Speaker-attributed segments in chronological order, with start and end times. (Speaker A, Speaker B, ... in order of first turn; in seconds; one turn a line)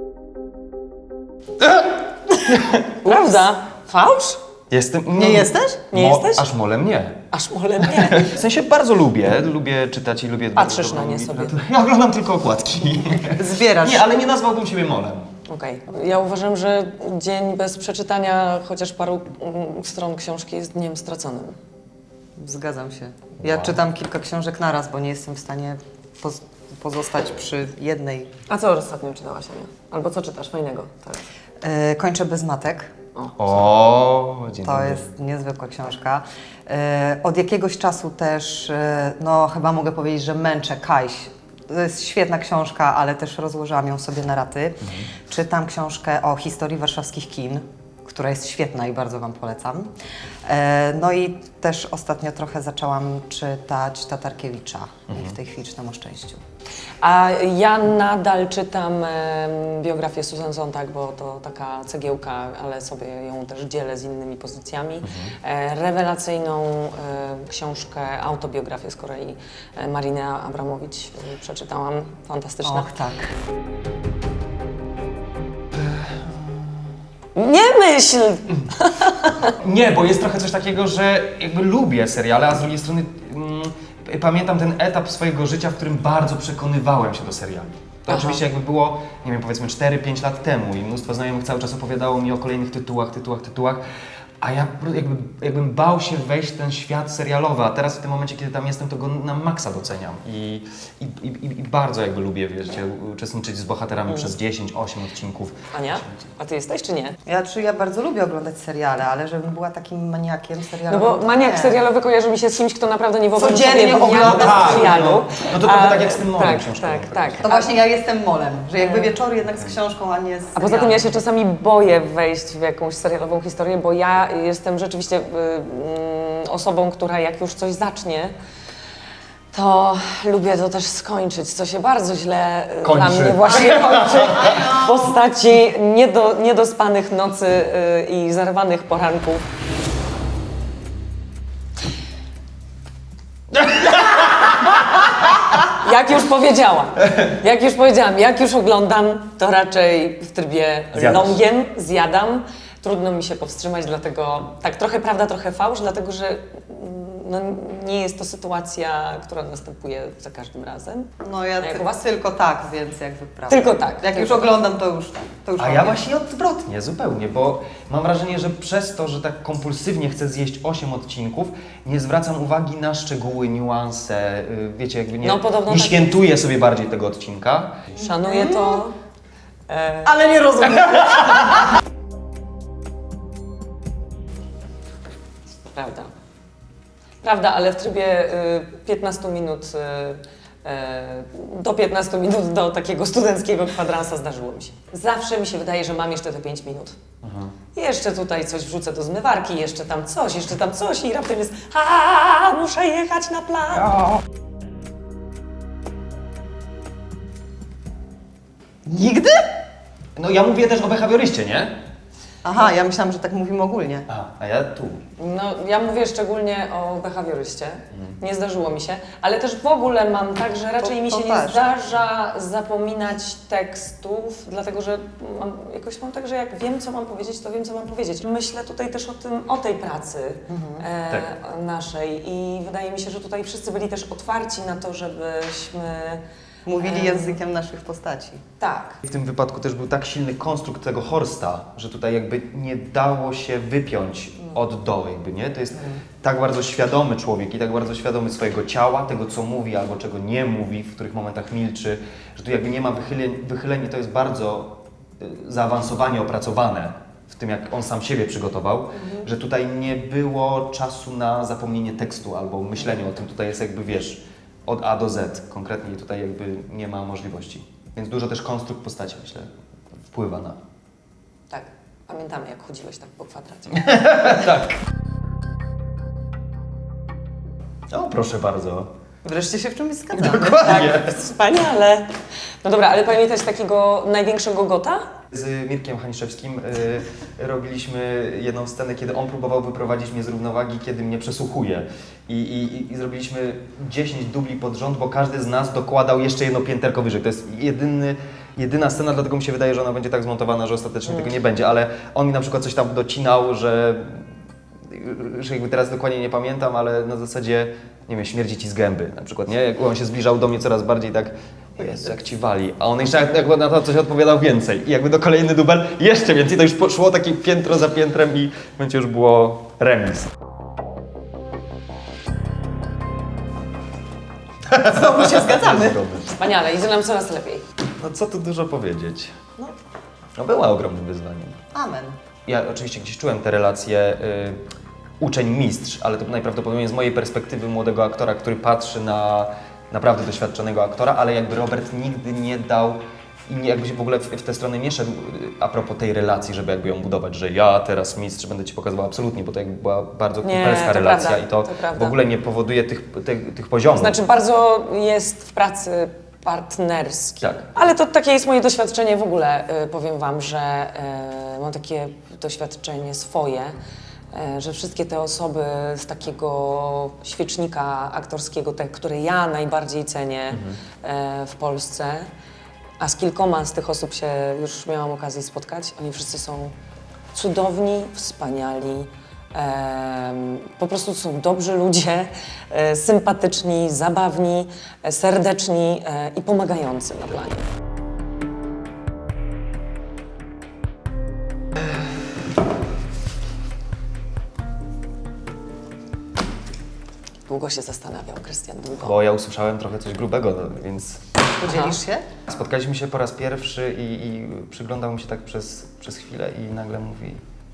Speaker A: 2.4-3.2
Speaker B: 3.0-4.4
Speaker A: 4.7-7.2
Speaker C: 5.2-5.8
Speaker B: 5.9-6.4
Speaker B: 7.3-8.4
Speaker A: 7.8-15.3
Speaker B: 10.6-11.6
Speaker C: 13.3-14.1
Speaker B: 15.5-21.6
Speaker C: 22.4-28.3
Speaker A: 23.4-23.8
Speaker B: 28.5-31.2
Speaker C: 31.6-32.9
Speaker B: 33.1-33.6
Speaker A: 33.4-35.1
Speaker C: 34.6-49.9
Speaker A: 44.8-45.1
Speaker C: 50.5-56.4
Speaker A: 55.1-55.3
Speaker B: 57.0-72.9
Speaker A: 65.0-65.3
Speaker C: 72.6-73.3
Speaker A: 75.8-76.2
Speaker B: 77.3-79.5
Speaker A: 79.4-93.8
Speaker B: 88.1-88.4
Speaker A: 94.4-106.2
Speaker B: 105.7-107.2
Speaker C: 107.2-111.8
Speaker B: 110.9-117.7
Speaker C: 113.4-115.1
Speaker A: 113.4-117.4
Speaker C: 117.4-121.1
Speaker B: 118.8-119.2
Speaker B: 120.5-128.3
Speaker B: 129.5-139.4
Speaker A: 132.8-134.8
Speaker A: 143.6-144.2
Speaker B: 145.6-161.1
Speaker A: 150.9-151.4
Speaker C: 161.2-166.0
Speaker B: 161.6-161.8
Speaker B: 163.5-164.5
Speaker A: 165.6-177.9
Speaker B: 175.2-176.2
Speaker B: 177.9-178.9
Speaker C: 178.2-178.7
Speaker B: 179.7-180.2
Speaker C: 180.0-181.6
Speaker B: 185.7-186.1
Speaker B: 187.2-197.0
Speaker A: 197.2-197.6
Speaker B: 197.7-204.0
Speaker C: 208.8-209.5
Speaker A: 210.2-211.7
Speaker C: 212.4-214.1
Speaker A: 214.1-215.0
Speaker B: 215.2-236.2
Speaker C: 220.8-221.6
Speaker C: 230.5-230.8
Speaker C: 236.6-238.4
Speaker B: 236.8-237.4
Speaker B: 238.6-239.0
Speaker A: 239.0-269.5
Speaker A: 270.1-270.6
Speaker B: 271.5-274.1
Speaker A: 273.8-274.8
Speaker A: 277.9-278.9
Speaker C: 279.2-280.9
Speaker A: 280.1-281.1
Speaker B: 280.6-282.1
Speaker B: 282.6-285.0
Speaker A: 285.3-304.3
Speaker A: 304.9-320.3
Speaker A: 324.7-326.4
Speaker C: 324.8-326.0
Speaker B: 326.3-327.6
Speaker A: 328.0-329.4
Speaker A: 330.4-331.6
Speaker C: 331.7-332.2
Speaker A: 332.4-334.6
Speaker A: 335.2-354.2
Speaker B: 350.4-352.2
Speaker B: 353.9-363.7
Speaker A: 357.4-357.8
Speaker B: 364.3-372.3
Speaker A: 370.5-370.8
Speaker B: 373.0-376.7
Speaker B: 377.3-387.6
Speaker B: 397.5-399.2
Speaker A: 399.0-401.2
Speaker C: 401.6-402.3
Speaker B: 401.6-402.0
Speaker A: 402.5-407.4